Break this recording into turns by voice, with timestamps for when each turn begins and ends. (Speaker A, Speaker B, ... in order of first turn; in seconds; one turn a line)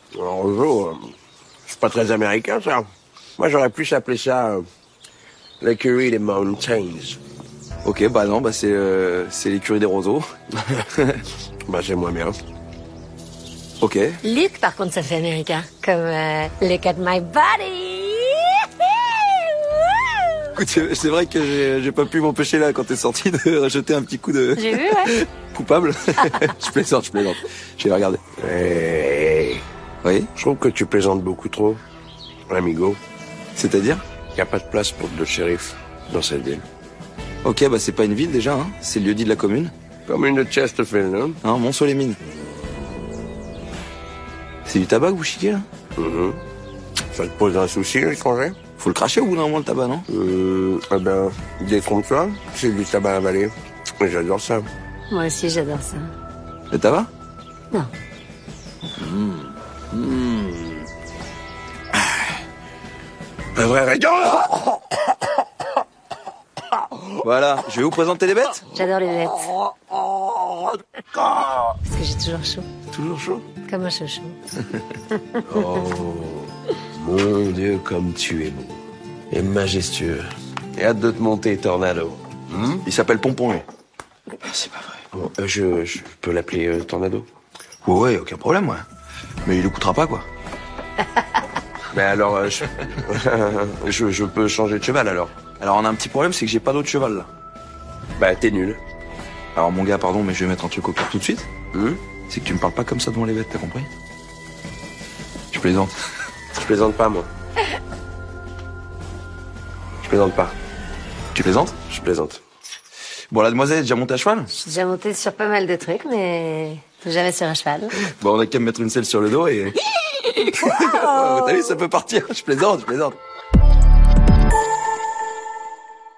Speaker A: 0.1-1.1
Speaker A: 1.7-4.6
Speaker A: 5.6-7.2
Speaker B: 7.8-11.2
Speaker A: 11.6-12.4
Speaker B: 13.8-14.2
Speaker C: 14.2-20.1
Speaker B: 20.6-28.2
Speaker C: 24.6-25.1
Speaker A: 28.4-29.6
Speaker B: 30.0-30.3
Speaker A: 30.4-31.8
Speaker A: 32.5-33.0
Speaker B: 33.5-34.0
Speaker A: 34.3-36.6
Speaker B: 37.4-39.7
Speaker A: 40.1-41.4
Speaker B: 41.4-42.2
Speaker B: 44.7-45.7
Speaker A: 46.0-46.4
Speaker A: 47.1-48.6
Speaker B: 48.8-50.0
Speaker A: 50.1-54.7
Speaker C: 55.1-56.1
Speaker B: 56.7-57.1
Speaker B: 59.0-60.6
Speaker A: 63.5-64.9
Speaker B: 67.1-68.7
Speaker C: 68.7-69.6
Speaker C: 71.8-72.7
Speaker A: 72.9-73.5
Speaker C: 73.6-74.4
Speaker A: 75.5-78.8
Speaker A: 79.3-82.8
Speaker B: 82.8-83.6
Speaker B: 84.4-85.0
Speaker A: 85.1-87.3
Speaker B: 87.8-88.8
Speaker B: 89.5-90.3
Speaker A: 91.9-95.4
Speaker B: 95.6-97.3
Speaker A: 98.2-98.8
Speaker B: 99.5-101.5
Speaker A: 101.7-102.0
Speaker B: 102.3-103.9
Speaker B: 105.5-105.9
Speaker A: 106.5-107.3
Speaker A: 110.0-110.5
Speaker B: 111.3-111.8
Speaker A: 111.9-112.4
Speaker B: 113.3-114.5
Speaker C: 114.5-118.0
Speaker B: 118.1-119.8
Speaker B: 120.3-123.2